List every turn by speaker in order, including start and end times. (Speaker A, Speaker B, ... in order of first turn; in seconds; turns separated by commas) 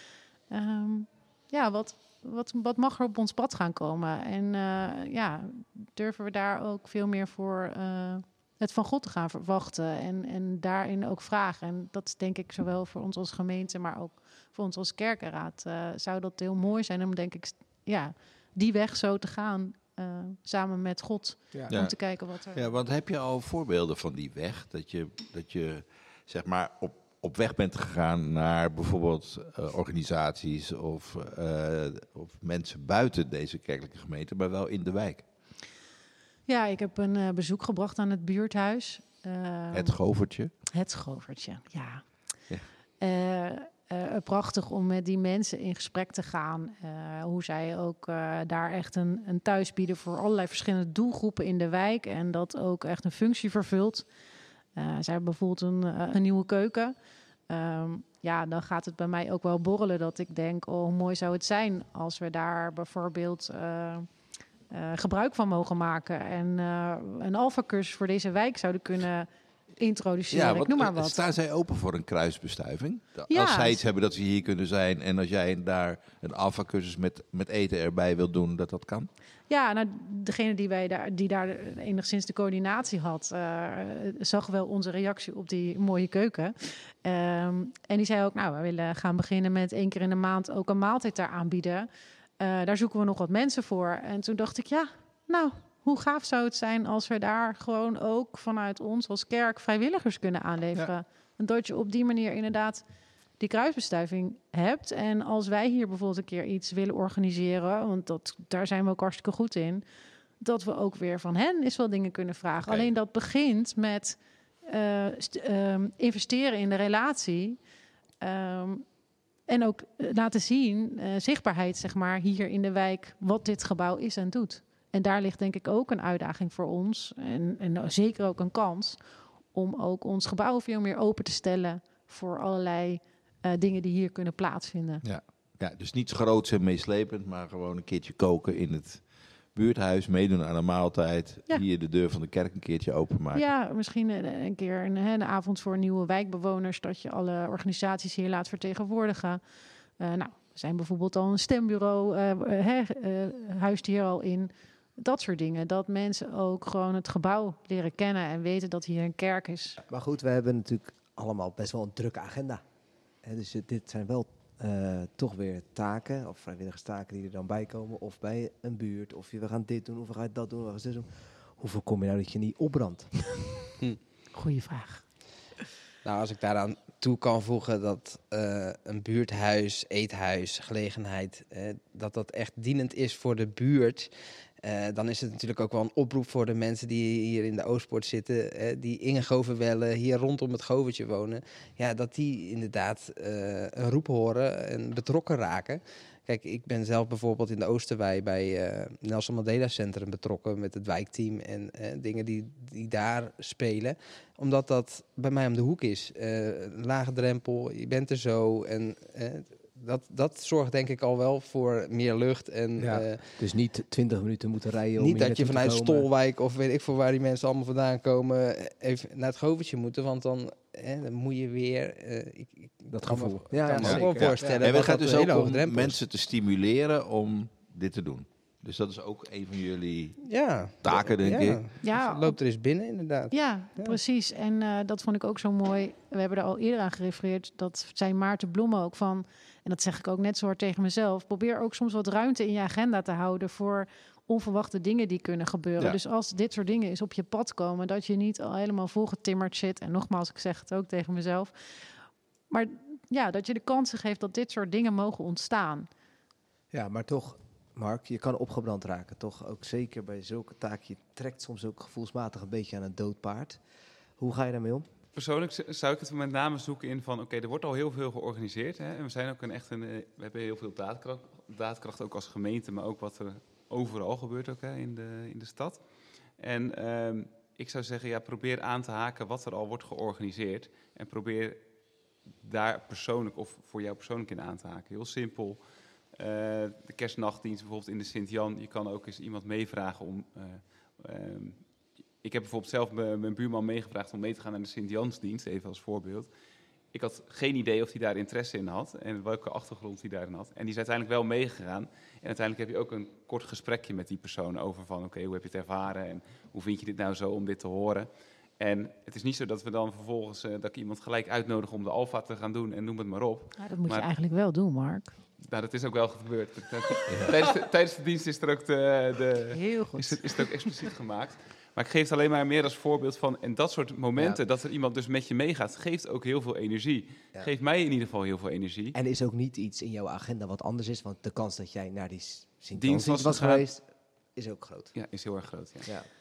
Speaker A: 0.5-22.6, Speaker B: 21.7-35.3, Speaker A: 36.5-40.0, Speaker B: 39.7-40.5, Speaker A: 40.6-54.1, Speaker A: 54.8-57.0, Speaker A: 57.5-64.1, Speaker A: 64.7-71.2, Speaker B: 70.3-79.1, Speaker A: 73.3-73.8, Speaker A: 79.5-91.9, Speaker A: 92.4-102.8, Speaker A: 103.4-109.8, Speaker A: 110.4-117.6, Speaker A: 118.2-118.8, Speaker A: 119.5-135.0, Speaker B: 135.0-143.5, Speaker A: 143.3-149.4, Speaker A: 150.0-159.8, Speaker C: 159.9-162.6, Speaker C: 163.2-173.2, Speaker A: 174.3-175.1, Speaker D: 176.0-213.4, Speaker C: 212.8-216.1, Speaker D: 215.0-226.0, Speaker C: 222.9-224.6, Speaker B: 223.8-231.7, Speaker D: 230.2-234.0, Speaker A: 231.8-232.4, Speaker A: 233.3-255.9, Speaker C: 256.7-263.6, Speaker C: 264.2-264.9, Speaker E: 265.2-275.8, Speaker E: 276.4-281.6, Speaker E: 282.4-296.3, Speaker E: 296.9-314.1, Speaker A: 313.6-315.1, Speaker E: 315.4-328.9, Speaker A: 319.5-320.3, Speaker C: 324.2-324.4, Speaker C: 328.9-334.9, Speaker E: 332.7-333.7, Speaker E: 334.9-335.9, Speaker C: 335.8-336.1